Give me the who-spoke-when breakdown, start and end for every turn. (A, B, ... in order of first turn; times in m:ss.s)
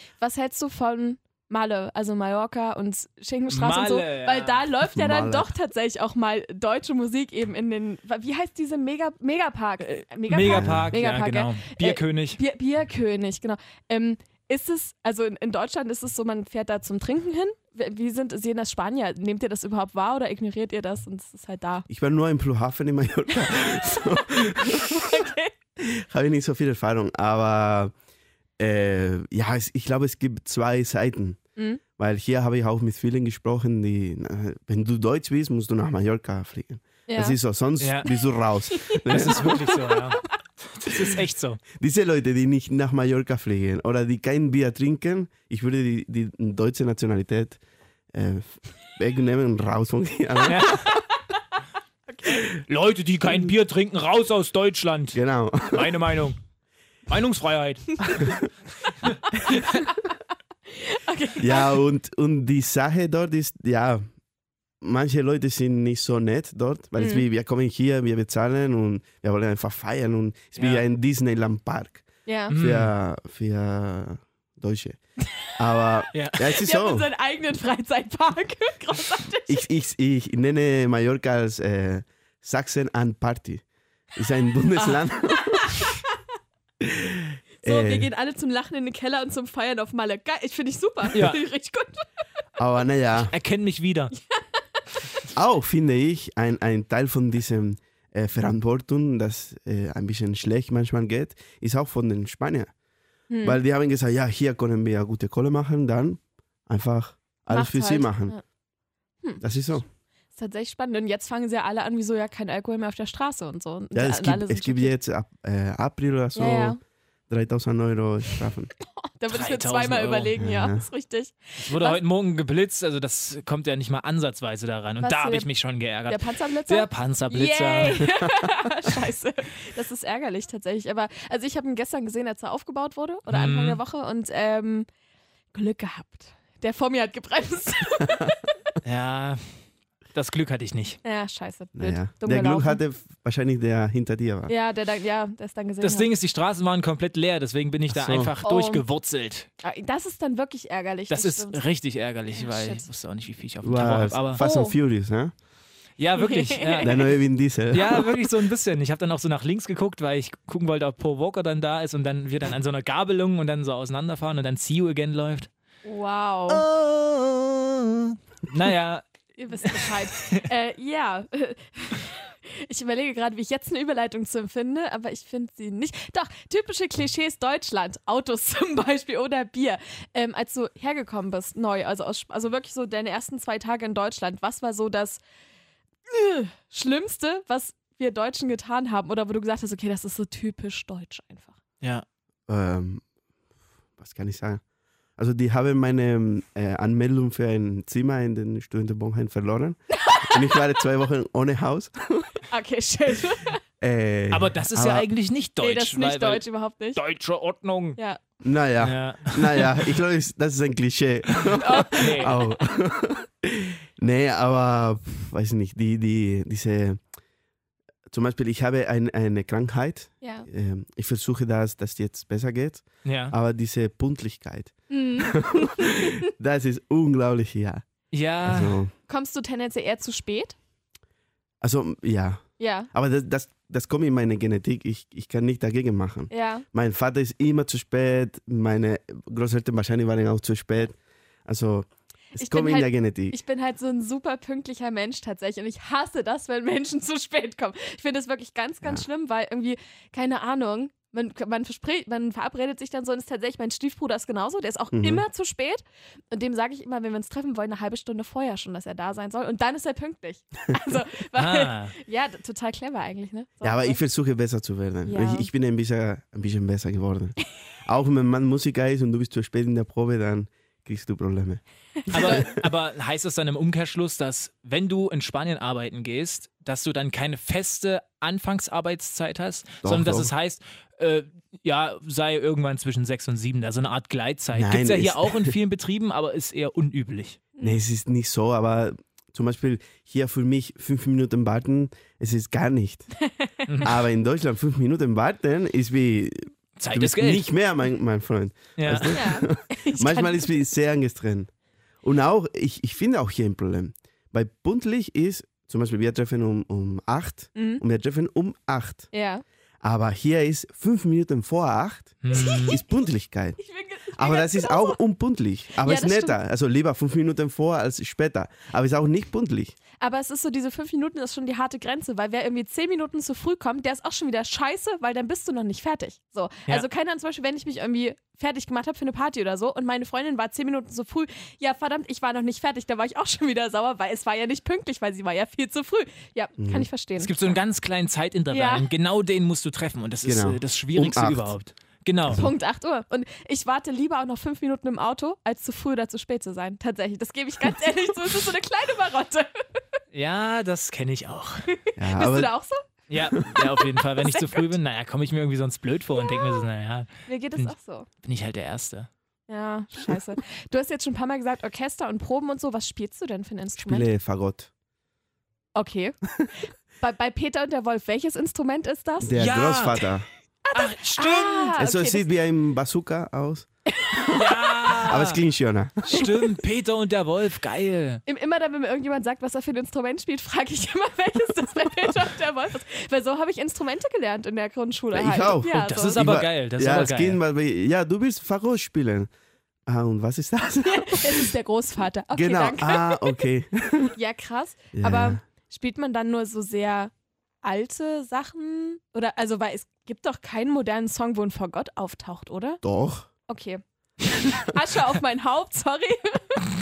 0:00.2-0:21.9 A
0:03.5-0:04.6 B
0:04.9-0:05.5 C
0:09.8-0:12.4 B
0:10.4-0:10.9 C
0:21.9-0:25.2 C
0:24.8-0:25.5 A
0:25.8-0:27.9 C
0:28.6-0:31.4 C
0:32.0-0:39.6 C
0:37.1-0:37.4 A
0:37.8-0:38.1 B
0:38.7-0:39.4 A
0:39.1-0:40.2 B
0:40.8-0:41.6 B
0:41.8-0:47.6 C
0:48.1-0:51.0 C
0:50.4-0:50.8 B
0:50.7-0:51.0 A
0:52.1-0:52.4 A
0:52.7-0:56.4 B
0:53.3-0:53.5 C
0:55.1-0:56.1 C
0:57.1-0:58.3 B
0:58.1-0:58.5 C
0:59.0-0:59.8 B
0:59.5-0:59.9 A
1:00.7-1:01.8 A
1:01.4-1:04.0 C
1:04.8-1:15.0 C
1:07.0-1:07.2 A
1:10.6-1:10.8 B
1:12.3-1:12.5 A
1:12.5-1:12.9 B
1:15.6-1:17.1 C
1:16.1-1:16.5 B
1:16.5-1:19.6 A
1:19.5-1:23.6 C
1:24.2-1:25.8 C
1:26.8-1:28.1 C
1:27.6-1:32.1 A
1:31.1-1:31.4 B
1:32.6-1:33.3 C
1:33.3-1:34.1 B
1:35.3-1:42.7 C
1:43.3-1:43.6 A
1:43.4-1:48.4 C
1:47.5-1:48.4 A
1:49.4-1:49.8 C
1:50.4-1:55.0 A
1:53.9-1:56.8 C
1:56.4-1:56.8 A
1:57.3-1:58.7 C
1:58.8-2:02.0 A
1:59.3-2:00.3 B
2:00.4-2:00.8 C
2:01.6-2:08.1 B
2:05.0-2:05.5 A
2:06.1-2:14.9 A
2:13.3-2:13.8 B
2:15.5-2:18.5 A
2:18.8-2:19.4 B
2:20.1-2:21.0 B
2:21.0-2:22.8 A
2:21.8-2:24.5 C
2:24.5-2:26.1 A
2:25.8-2:29.5 B
2:27.9-2:28.3 C
2:28.4-2:28.8 A
2:29.6-2:31.6 A
2:31.1-2:34.4 B
2:32.4-2:32.8 A
2:33.6-2:35.3 C
2:34.4-2:34.8 A
2:36.0-2:37.0 B
2:36.2-2:36.9 A
2:36.8-2:38.3 C
2:37.7-2:45.5 B
2:45.8-2:46.6 A
2:46.5-2:49.0 B
2:49.4-3:05.2 A
2:49.6-2:50.5 B
3:06.1-3:11.6 A
3:12.5-3:13.0 C
3:14.0-3:14.6 C
3:15.2-3:22.3 C
3:19.9-3:20.4 A
3:22.5-3:23.6 A
3:23.8-3:25.1 C
3:24.3-3:26.4 B
3:25.6-3:27.0 A
3:27.0-3:28.0 B
3:28.0-3:28.2 A
3:28.4-3:37.0 C
3:28.8-3:29.8 B
3:31.6-3:32.5 A
3:31.9-3:32.4 B
3:38.1-3:47.8 C
3:40.2-3:40.5 A
3:43.0-3:43.4 B
3:44.9-3:46.2 A
3:48.1-3:48.8 B
3:48.4-3:48.9 C
3:49.1-3:50.6 A
3:51.6-4:03.4 C
3:52.6-3:52.9 A
3:56.3-3:56.6 A
4:02.4-4:24.0 A
4:14.9-4:15.2 C
4:21.4-4:21.9 B
4:23.6-4:32.7 C
4:25.1-4:25.5 A
4:32.1-4:32.5 A
4:32.1-4:47.4 B
4:39.8-4:40.3 C
4:44.5-4:45.5 C
4:47.6-4:53.1 C
4:53.2-4:53.6 A
4:53.7-4:54.0 B
4:53.8-5:01.5 C
4:56.8-4:57.5 B
4:58.8-4:59.2 B
4:59.1-5:00.5 A
5:02.0-5:09.1 C
5:07.6-5:07.8 A
5:09.1-5:09.4 A
5:09.8-5:13.6 C
5:12.2-5:12.8 B
5:12.3-5:12.8 A
5:13.6-5:15.0 A
5:14.1-5:19.8 C
5:15.8-5:16.4 A
5:20.0-5:37.6 A
5:36.6-5:36.9 C
5:37.2-5:42.5 B
5:38.5-5:38.8 A
5:40.2-5:41.5 C
5:42.3-5:49.8 A
5:50.1-5:51.7 B
5:51.8-5:52.8 A
5:52.0-5:52.5 C
5:53.1-5:59.1 B
5:54.2-5:54.7 A
5:56.2-5:56.6 A
5:57.3-5:58.1 A
5:59.5-6:04.1 A
6:03.8-6:04.7 C
6:05.8-6:09.3 A
6:09.2-6:10.3 C
6:09.4-6:10.1 B
6:10.6-6:12.3 A
6:10.7-6:11.8 B
6:11.8-6:14.5 C
6:14.3-6:15.4 B
6:15.0-6:16.2 C
6:16.0-6:18.2 B
6:18.3-6:26.2 A
6:25.1-6:29.3 C
6:25.8-6:27.4 B
6:29.9-6:31.5 C
6:30.8-6:33.4 A
6:32.3-6:34.2 C
6:34.2-6:37.1 A
6:34.9-6:35.4 C
6:37.6-6:42.8 A
6:42.8-6:43.3 C
6:43.5-6:43.8 A
6:44.5-6:46.6 A